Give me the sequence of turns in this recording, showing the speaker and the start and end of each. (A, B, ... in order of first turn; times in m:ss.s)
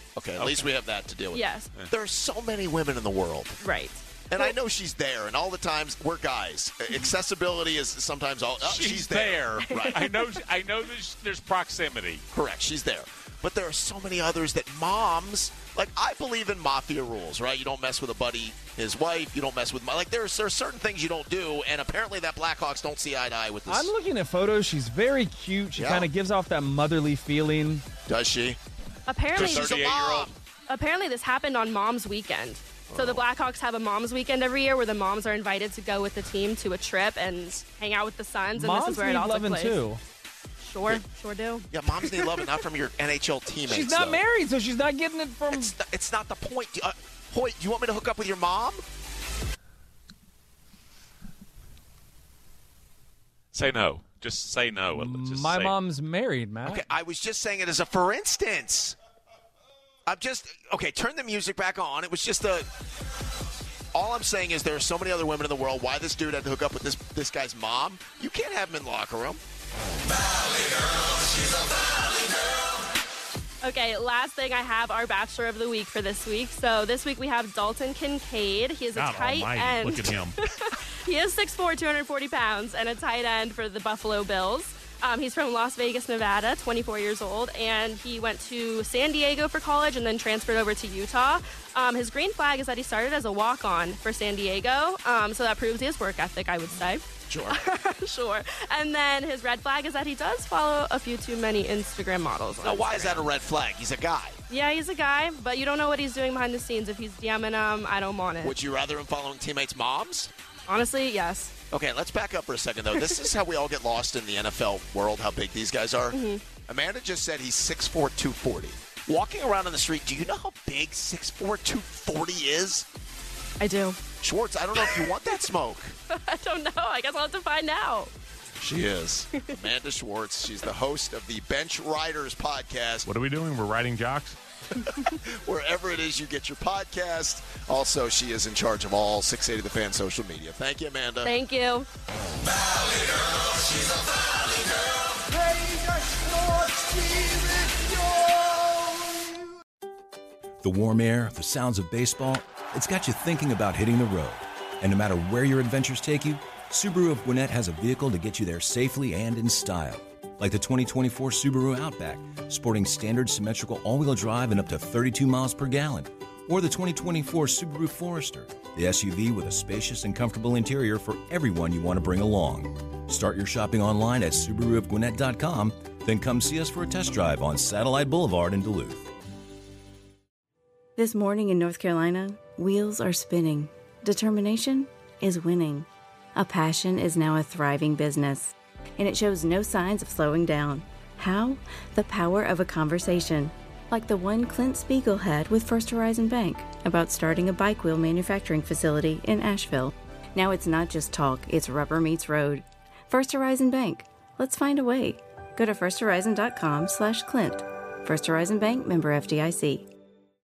0:00.2-0:03.6 A
0:00.4-0:00.7 B
0:01.3-0:01.7 C
0:03.6-0:04.5 C
0:04.3-0:10.1 A
0:08.6-0:12.2 B
0:09.6-0:10.2 C
0:12.3-0:23.9 A
0:23.7-0:27.8 D
0:25.8-0:26.1 A
0:28.1-0:28.6 A
0:29.1-0:29.6 C
0:29.3-0:30.4 B
0:29.3-0:30.3 A
0:30.7-0:39.8 C
0:32.9-0:33.2 A
0:38.6-0:40.0 D
0:40.6-0:41.7 C
0:41.7-0:44.2 A
0:42.2-0:42.5 D
0:43.6-0:45.7 D
0:45.5-0:48.8 A
0:53.5-0:55.7 B
0:54.9-0:56.8 D
0:56.6-0:59.0 A
1:00.1-1:02.7 A
1:03.9-1:09.4 A
1:13.6-1:43.3 C
1:19.0-1:20.4 E
1:37.3-1:37.6 A
1:42.6-1:44.4 A
1:44.5-1:48.6 C
1:48.4-1:50.3 A
1:50.7-1:51.5 C
1:51.7-2:02.8 A
1:56.1-1:56.5 C
2:03.6-2:04.0 C
2:04.2-2:05.9 A
2:04.8-2:05.1 C
2:06.1-2:08.1 C
2:08.6-2:13.1 A
2:13.1-2:14.0 E
2:14.8-2:21.3 A
2:21.2-2:21.9 C
2:30.6-2:59.1 F
3:01.0-3:29.9 G